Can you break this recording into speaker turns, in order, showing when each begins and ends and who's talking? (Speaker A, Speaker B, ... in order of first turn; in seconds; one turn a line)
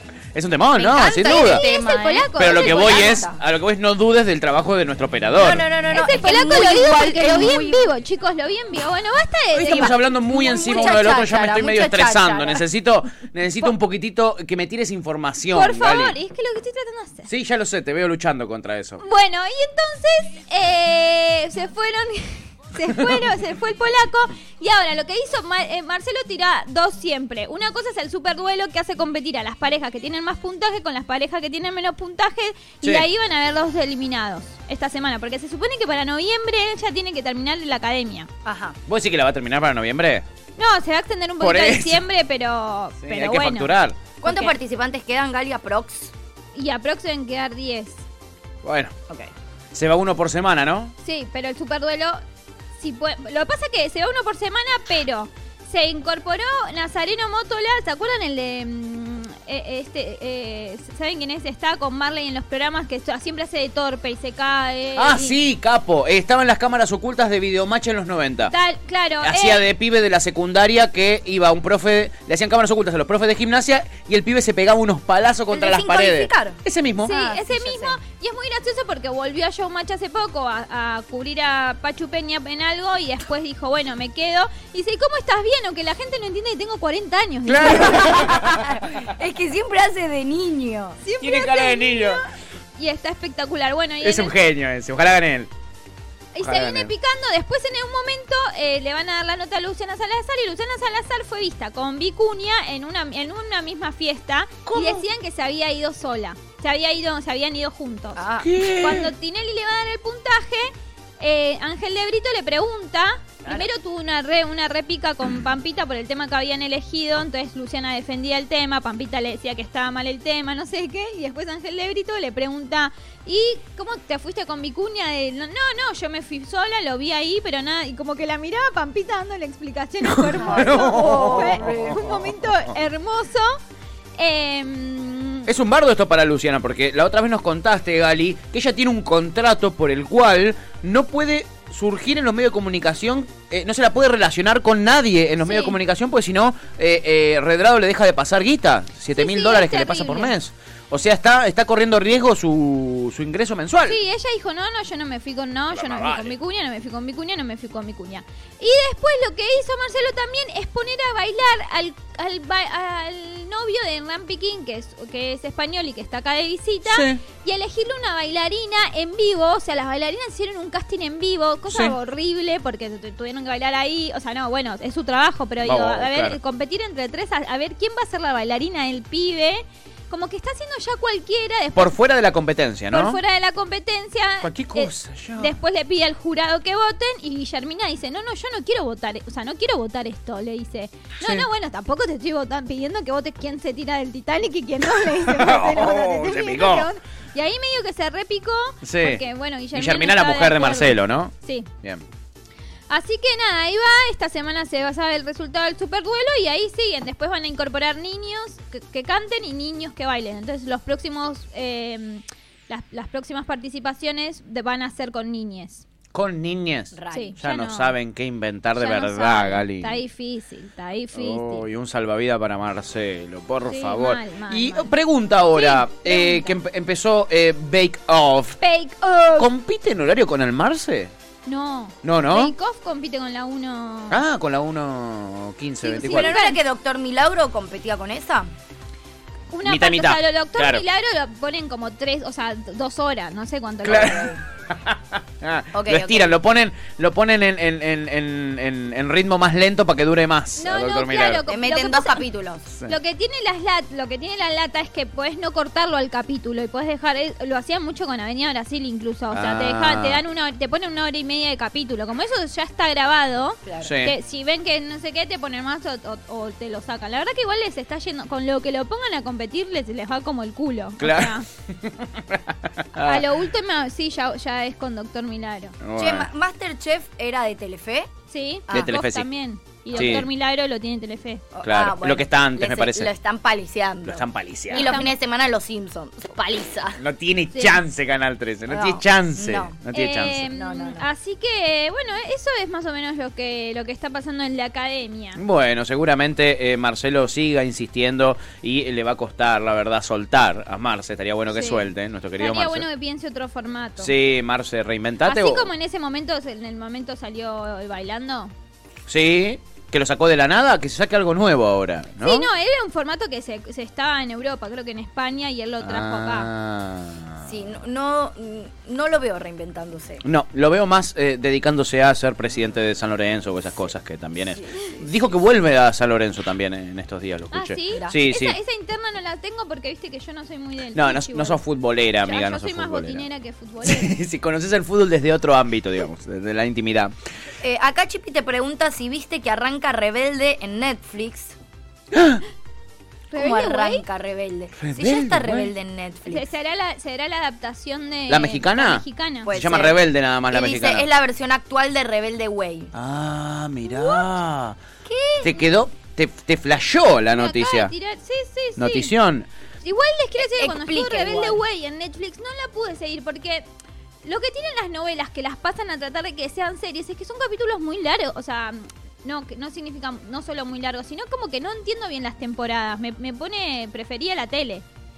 Speaker A: 0.3-1.6
Speaker B: 0.8-3.4
Speaker C: 1.0-3.1
Speaker A: 2.3-5.7
Speaker B: 5.4-7.9
Speaker C: 5.9-11.0
Speaker A: 9.5-16.1
Speaker B: 9.6-12.6
Speaker C: 15.5-17.3
Speaker A: 17.3-19.0
Speaker C: 19.0-38.3
Speaker A: 22.9-23.2
Speaker A: 32.8-33.1
Speaker B: 38.4-38.8
Speaker A: 38.9-40.2
Speaker C: 40.6-44.5
Speaker A: 41.4-42.0
Speaker A: 43.0-44.0
Speaker B: 44.2-46.1
Speaker C: 46.5-48.0
Speaker A: 48.6-48.9
Speaker A: 49.7-50.9
Speaker C: 51.0-52.2
Speaker C: 52.8-65.3
Speaker A: 65.0-68.5
Speaker C: 68.5-69.6
Speaker A: 69.2-77.2
Speaker B: 75.5-76.6
Speaker C: 77.0-88.2
Speaker B: 77.1-78.0
Speaker A: 87.5-88.8
Speaker B: 87.6-91.0
Speaker C: 91.0-94.3
Speaker A: 91.2-92.2
Speaker A: 94.0-95.5
Speaker C: 96.3-133.6
Speaker A: 96.4-96.9
Speaker A: 104.7-105.0
Speaker B: 108.2-108.5
Speaker A: 108.4-109.1
Speaker A: 130.0-132.3
Speaker B: 130.4-132.0
Speaker C: 134.2-135.5
Speaker A: 135.4-154.0
Speaker C: 145.4-145.8
Speaker C: 149.1-150.3
Speaker C: 153.8-182.0
Speaker A: 155.7-156.3
Speaker A: 166.8-167.2
Speaker A: 171.7-171.9
Speaker A: 175.6-176.4
Speaker A: 181.7-183.2
Speaker C: 182.9-201.7
Speaker A: 184.4-185.5
Speaker A: 191.2-191.4
Speaker A: 194.9-196.9
Speaker A: 198.8-199.2
Speaker A: 199.7-202.0
Speaker C: 202.9-215.8
Speaker A: 216.1-220.0
Speaker B: 216.9-217.3
Speaker C: 217.1-217.9
Speaker C: 218.8-221.6
Speaker A: 221.1-228.6
Speaker C: 223.7-224.9
Speaker C: 225.5-226.5
Speaker C: 228.6-229.5
Speaker A: 229.4-231.1
Speaker C: 231.4-234.2
Speaker A: 232.0-232.5
Speaker A: 234.1-236.3
Speaker C: 235.9-236.6
Speaker B: 235.9-238.5
Speaker C: 239.5-244.4
Speaker A: 239.6-240.8
Speaker A: 243.8-251.4
Speaker B: 243.9-244.4
Speaker B: 245.7-246.3
Speaker C: 250.6-252.2
Speaker B: 251.5-252.7
Speaker C: 252.8-271.4
Speaker A: 259.3-260.2
Speaker B: 263.6-263.9
Speaker A: 263.8-264.1
Speaker A: 271.0-273.2
Speaker C: 272.9-275.8
Speaker A: 275.8-276.3
Speaker B: 275.9-278.1
Speaker C: 278.3-281.4
Speaker A: 278.7-279.3
Speaker A: 279.9-280.3
Speaker B: 281.5-287.0
Speaker A: 281.6-283.1
Speaker A: 284.1-285.0
Speaker C: 284.7-285.1
Speaker A: 287.0-290.5
Speaker C: 287.5-287.8
Speaker B: 288.7-289.7
Speaker C: 289.9-295.4
Speaker B: 290.5-291.1
Speaker A: 295.4-302.9
Speaker C: 301.5-304.1
Speaker A: 304.0-305.7
Speaker C: 305.2-308.5
Speaker A: 309.1-312.5
Speaker C: 312.2-316.5
Speaker A: 315.8-317.5
Speaker B: 317.4-320.2
Speaker A: 320.2-328.6
Speaker C: 327.5-331.6
Speaker A: 330.9-333.2
Speaker C: 332.2-334.2
Speaker A: 333.8-337.1
Speaker B: 337.6-341.5
Speaker A: 342.1-342.4
Speaker C: 343.3-344.0
Speaker B: 343.3-346.5
Speaker A: 344.8-345.7
Speaker C: 346.3-349.5
Speaker A: 348.3-351.1
Speaker B: 349.4-352.9
Speaker A: 352.9-354.8
Speaker C: 353.9-354.2
Speaker B: 355.1-355.6
Speaker A: 355.4-357.9
Speaker C: 357.3-359.1
Speaker A: 358.8-359.5
Speaker C: 359.8-363.6
Speaker B: 360.5-361.6
Speaker C: 364.2-374.8